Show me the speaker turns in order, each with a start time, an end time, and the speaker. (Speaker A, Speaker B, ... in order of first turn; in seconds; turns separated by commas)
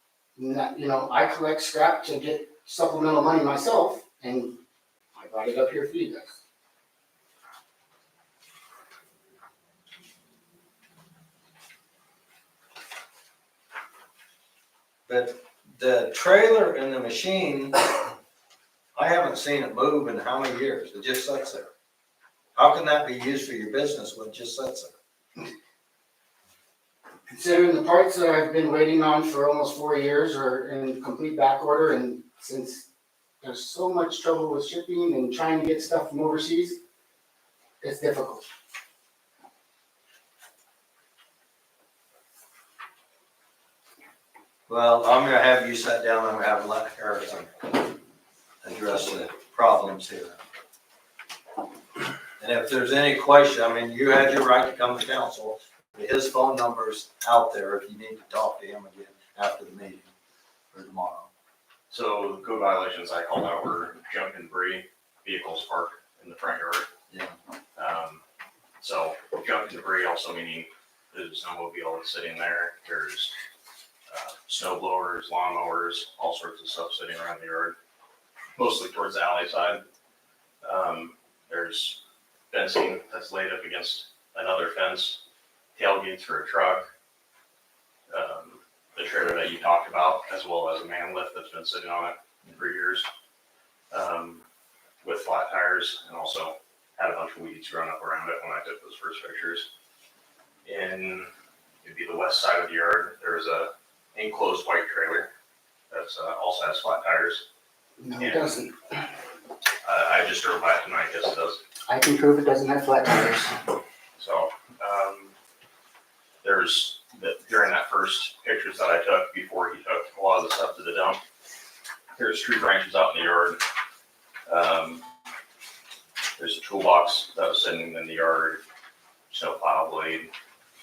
Speaker A: 0.3-4.6, Speaker A: 5.1-6.4, Speaker B: 15.1-17.9, Speaker B: 18.9-21.7, Speaker B: 22.6-24.9, Speaker A: 27.3-32.9, Speaker A: 33.4-36.8, Speaker A: 37.8-38.4, Speaker B: 44.7-47.9, Speaker B: 48.6-50.4, Speaker B: 52.4-60.1, Speaker B: 60.7-61.3, Speaker C: 61.9-66.9, Speaker B: 67.1-67.3, Speaker C: 67.8-68.2, Speaker C: 68.8-73.3, Speaker C: 74.1-77.7, Speaker C: 78.5-79.8, Speaker C: 80.6-82.0, Speaker C: 82.5-85.2, Speaker C: 85.8-86.9, Speaker C: 88.1-93.1, Speaker C: 93.9-94.4, Speaker C: 95.0-99.7, Speaker C: 100.6-101.3, Speaker C: 101.8-105.3, Speaker C: 105.9-107.4, Speaker A: 108.0-109.0, Speaker C: 108.2-108.5, Speaker C: 109.8-111.6, Speaker A: 111.9-113.5, Speaker C: 114.2-115.3, Speaker C: 116.4-121.2, Speaker C: 122.2-123.6, Speaker C: 124.5-125.0, Speaker C: 126.4-128.6, Speaker C: 129.3-130.3